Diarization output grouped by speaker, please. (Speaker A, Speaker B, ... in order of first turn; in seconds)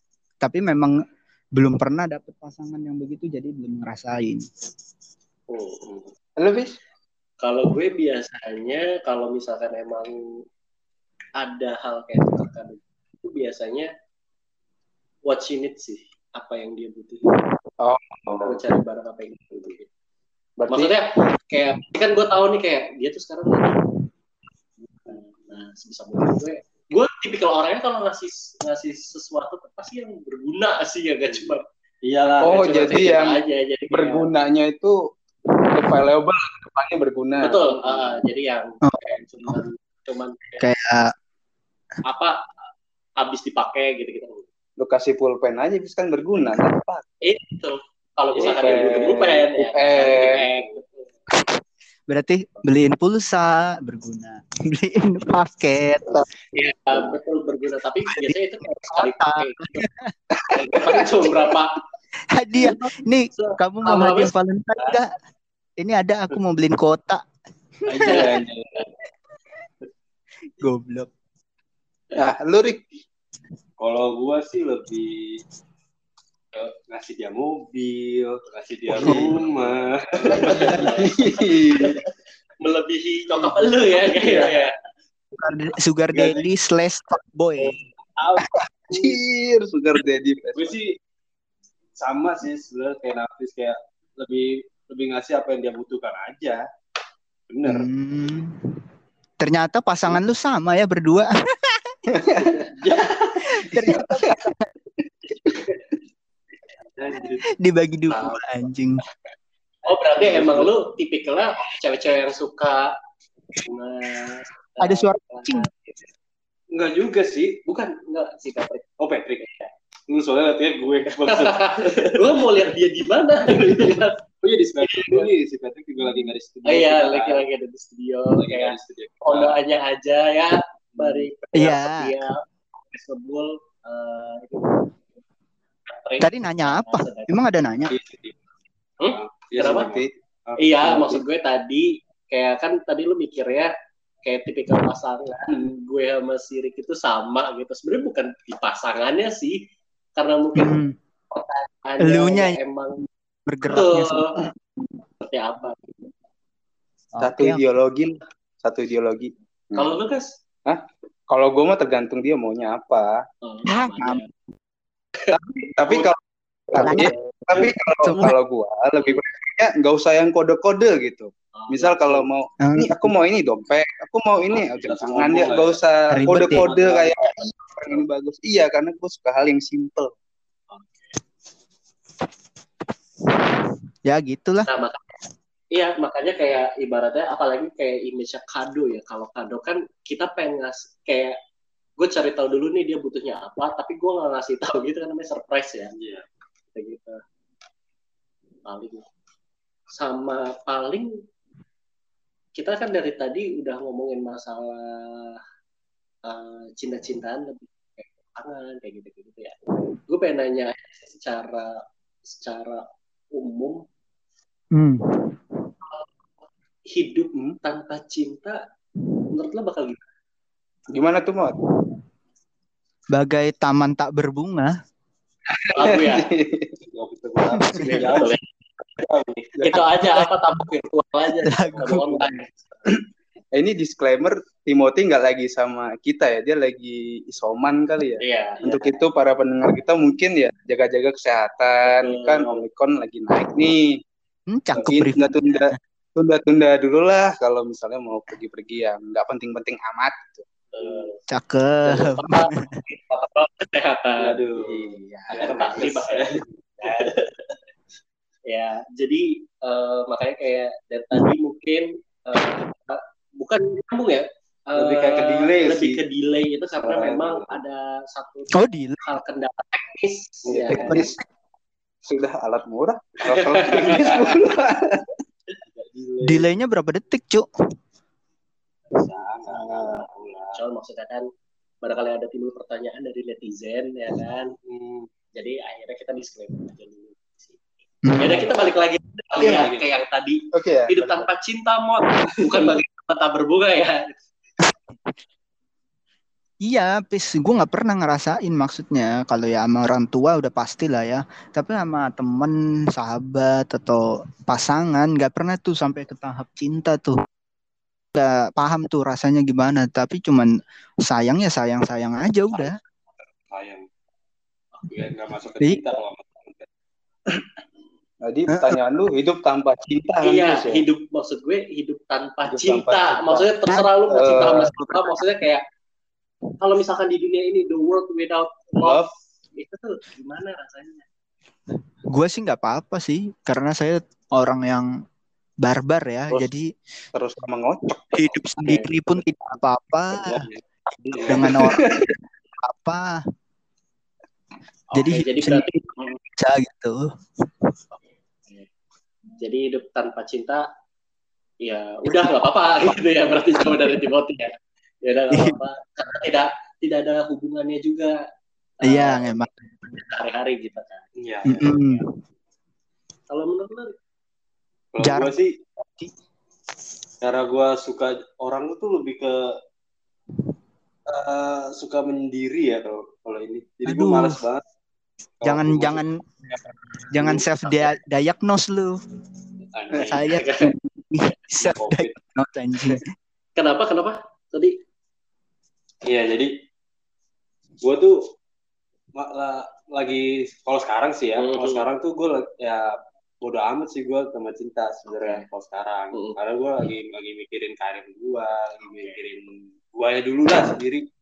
Speaker A: 0.4-0.9, 1.5-4.4, 38.8-39.6, 40.6-41.1, 51.3-56.2, 58.1-60.1, 62.3-65.1, 65.8-67.2, 67.9-68.3, 70.6-71.1, 85.3-87.8, 97.6-98.8, 99.4-102.0, 103.5-104.7, 107.5-109.0, 114.8-115.7, 131.5-132.3, 136.2-137.9, 150.6-150.9, 152.0-152.6, 153.5-154.5, 157.1-157.6, 163.7-164.2, 166.8-167.1, 168.0-168.3, 172.6-173.0, 176.1-176.7, 184.0-184.7, 214.7-215.7, 223.1-224.7, 227.5-228.3, 229.7-230.3, 231.4-232.4, 244.5-245.7, 251.3-252.8, 268.5-269.1, 270.9-271.2, 276.2-277.5, 288.0-288.5, 294.6-294.9, 296.6-307.2, 308.1-310.5, 311.0-312.8, 318.5-318.8, 323.7-325.3, 332.1-334.9, 335.6-336.7, 338.1-343.2, 344.9-347.0, 358.8-359.9, 361.4-362.0, 365.0-366.1, 373.9-374.4, 375.4-376.1, 377.1-378.9, 380.0-383.1
Speaker B: 5.5-6.1, 7.4-10.4, 11.4-13.9, 15.2-17.2, 18.3-19.9, 20.7-23.8, 25.0-31.6, 32.5-34.3, 37.4-40.6, 42.1-42.4, 43.2-44.4, 47.2-51.1, 56.5-59.9, 60.5-61.8, 63.4-65.0, 68.1-68.3, 80.3-82.1, 82.6-84.7, 108.1-108.4, 109.8-112.9, 113.6-115.7, 117.7-118.9, 119.4-119.7, 121.2-124.2, 124.8-125.3, 126.6-135.0, 135.9-137.3, 139.0-139.9, 140.6-143.7, 144.2-149.6, 150.2-150.7, 151.3-153.1, 153.7-154.4, 155.2-155.9, 159.7-160.4, 163.4-164.3, 171.6-172.3, 176.3-178.0, 180.7-181.2, 184.7-185.1, 185.7-191.4, 192.0-195.9, 196.7-197.2, 198.7-199.0, 199.9-201.2, 202.6-205.4, 206.2-213.8, 216.9-218.6, 219.3-220.0, 225.7-226.3, 227.8-228.4, 229.6-232.5, 238.2-239.0, 241.9-242.6, 250.7-251.2, 251.8-254.4, 255.3-257.2, 258.5-271.1, 273.4-274.3, 279.5-281.2, 281.8-284.5, 285.4-287.6, 288.2-294.1, 320.2-325.6, 326.6-331.0, 344.9-346.2, 347.9-348.7, 349.4-350.6, 351.6-354.5, 355.0-358.2, 358.8-362.0, 363.3-363.9, 377.6-377.9, 380.2-380.7, 383.6-384.8, 391.4-391.9, 395.1-395.4, 398.9-399.2
Speaker C: 6.4-6.8, 17.8-18.6, 20.6-21.0, 32.4-35.0, 35.7-37.7, 44.8-47.0, 48.4-50.5, 60.3-61.1, 72.1-72.8, 78.9-79.3, 80.3-82.0, 88.4-90.8, 102.1-103.1, 103.8-104.5, 105.5-105.7, 139.6-140.1, 140.8-141.2, 157.2-159.9, 160.7-163.2, 165.3-166.2, 166.7-180.1, 220.9-221.6, 225.5-226.8, 233.5-244.0, 244.7-250.4, 254.6-255.9, 270.5-271.2, 272.1-275.1, 290.5-291.3, 318.2-320.9, 322.4-323.5, 324.1-324.7, 328.8-329.1, 337.1-338.9, 341.3-342.1
Speaker D: 32.0-33.1, 48.4-49.3, 67.9-68.8, 73.8-75.4, 76.5-81.0, 84.0-84.6, 86.1-86.5, 87.6-89.2, 90.5-91.0, 92.0-96.6, 97.5-97.9, 102.8-103.6, 107.0-107.5, 110.2-110.7, 116.7-117.6, 119.0-119.5, 120.1-122.2, 124.4-127.4, 128.3-129.6, 130.9-131.3, 137.9-138.4, 139.1-141.0, 174.5-175.8, 195.9-196.2, 226.9-228.4, 229.0-229.5, 250.8-251.1, 254.2-256.4, 264.7-266.0, 266.8-267.5, 270.5-270.8, 275.7-276.5, 278.9-280.6, 284.6-285.1, 289.4-289.9, 313.4-313.8, 314.9-316.7, 340.2-341.6, 361.2-361.7, 364.9-365.5, 367.2-369.5, 371.1-374.6, 375.4-376.0, 379.7-380.3, 381.6-382.1, 386.0-386.5, 387.8-388.1, 389.1-401.0